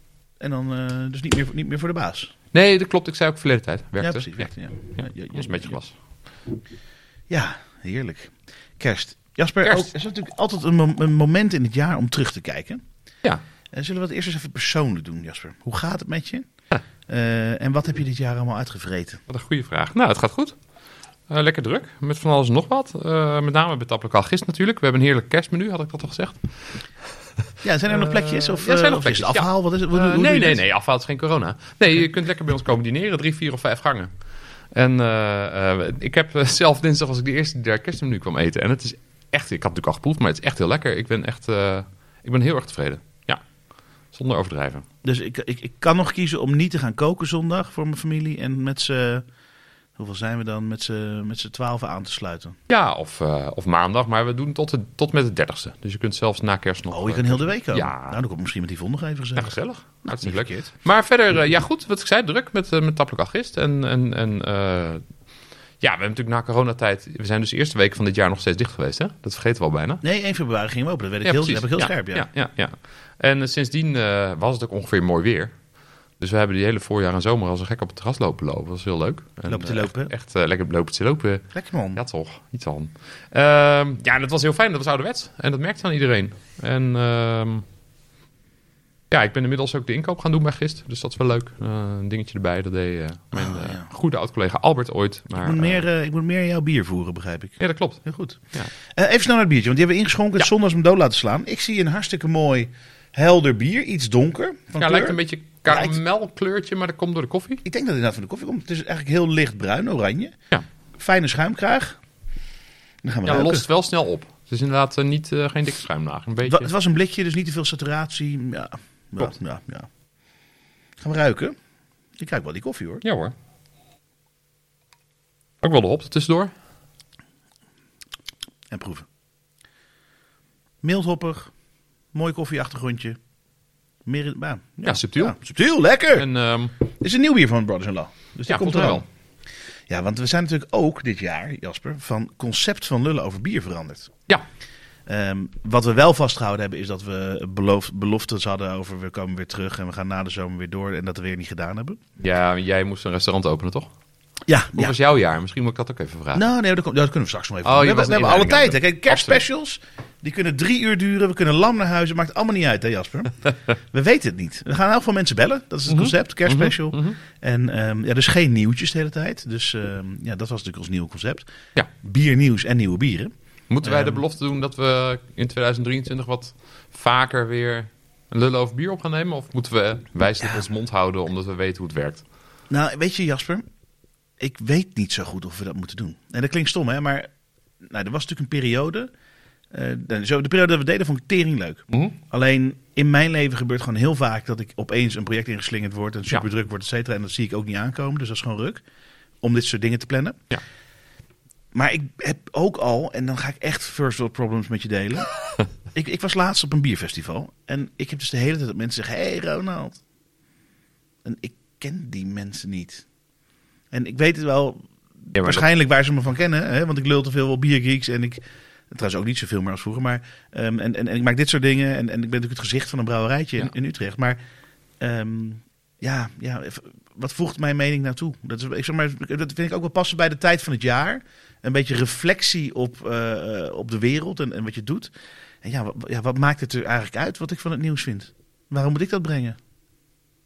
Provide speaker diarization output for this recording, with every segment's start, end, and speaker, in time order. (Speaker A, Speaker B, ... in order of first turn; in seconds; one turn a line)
Speaker A: 0.4-2.3
Speaker B: 2.5-5.9
Speaker A: 4.0-5.8
Speaker A: 7.3-12.8
Speaker A: 13.7-16.5
Speaker A: 17.1-19.2
Speaker B: 19.3-20.6
Speaker B: 21.3-26.5
Speaker A: 27.6-30.6
Speaker B: 27.9-34.1
Speaker B: 34.7-43.4
Speaker B: 44.1-44.9
Speaker A: 45.0-49.3
Speaker A: 50.0-52.6
Speaker B: 52.7-58.2
Speaker A: 56.9-60.7
Speaker B: 59.4-65.0
Speaker B: 65.8-70.0
Speaker A: 70.0-72.3
Speaker B: 71.2-75.6
Speaker B: 76.2-87.7
Speaker A: 79.5-80.1
Speaker A: 81.5-82.0
Speaker B: 89.1-95.8
Speaker A: 93.3-93.9
Speaker A: 95.4-106.0
Speaker B: 97.6-98.0
Speaker B: 104.8-107.6
Speaker A: 107.7-110.4
Speaker A: 111.0-112.0
Speaker A: 113.0-113.7
Speaker B: 113.2-116.7
Speaker A: 116.4-119.9
Speaker A: 121.0-121.6
Speaker A: 122.2-123.0
Speaker B: 123.0-123.3
Speaker B: 125.6-126.5
Speaker A: 128.7-129.1
Speaker A: 130.8-131.5
Speaker A: 132.1-133.2
Speaker A: 134.1-136.3
Speaker B: 134.8-135.4
Speaker B: 136.1-136.7
Speaker A: 136.8-139.1
Speaker B: 138.5-139.1
Speaker A: 139.9-144.2
Speaker A: 145.1-152.0
Speaker B: 152.2-153.9
Speaker A: 154.5-155.0
Speaker B: 154.8-156.5
Speaker A: 156.3-163.4
Speaker B: 157.7-159.4
Speaker A: 163.9-174.2
Speaker B: 165.9-167.2
Speaker B: 173.7-182.2
Speaker A: 182.7-183.7
Speaker A: 184.4-187.3
Speaker A: 187.8-189.1
Speaker A: 189.7-198.8
Speaker A: 199.4-200.4
Speaker A: 201.7-205.3
Speaker A: 205.9-210.0
Speaker A: 211.2-213.1
Speaker A: 213.9-224.4
Speaker B: 215.3-215.7
Speaker A: 225.0-239.6